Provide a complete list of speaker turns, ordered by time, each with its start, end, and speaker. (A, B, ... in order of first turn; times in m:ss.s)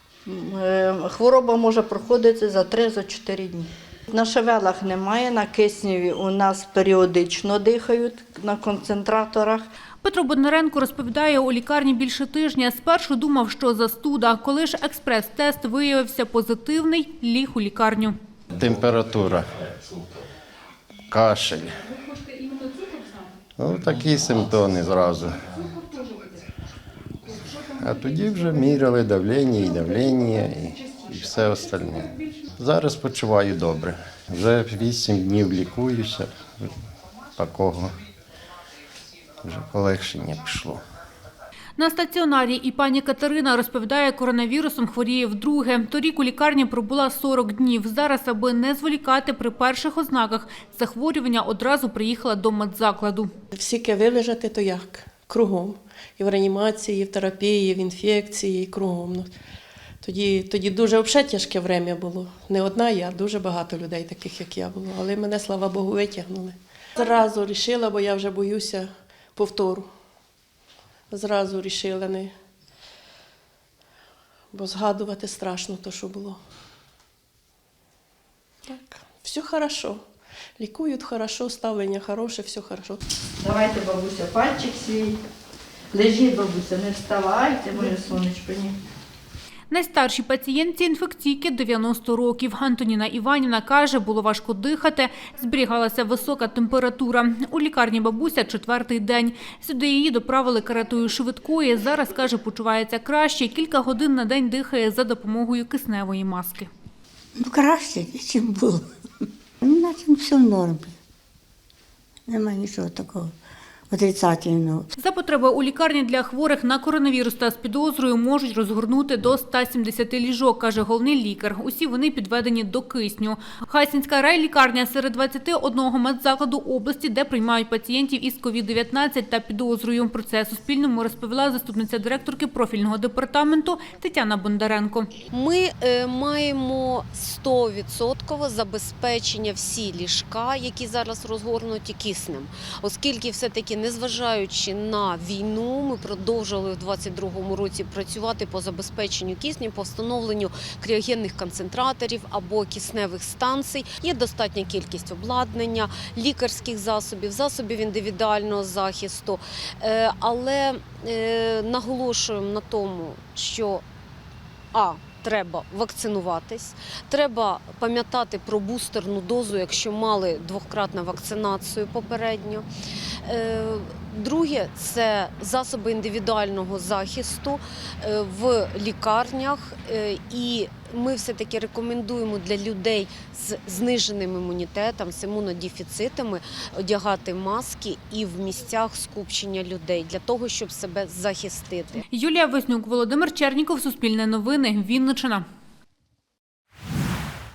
0:00.3-0:09.6 A
0:10.0-0:18.2 B
0:18.5-0:19.5 C
0:21.1-0:21.8 C
0:23.6-0:25.4 C
0:27.8-0:36.7 C
0:37.4-0:37.9 C
0:39.4-0:40.8 C
0:41.8-0:53.3 B
0:53.5-0:59.3 D
1:00.0-1:09.9 D
1:11.1-1:12.3 D
1:14.5-1:16.4 D
1:18.7-1:20.0 D
1:20.6-1:23.0 D
1:23.4-1:25.2 A
1:25.9-1:28.8 A
1:29.7-1:46.7 B
1:47.4-1:48.8 E
1:49.6-1:50.9 E
1:52.3-1:53.3 E
1:53.9-1:54.8 E
1:55.0-2:15.1 B
2:15.3-2:43.8 F
2:44.7-2:52.7 F
2:53.2-3:12.0 F
3:12.1-3:15.4 B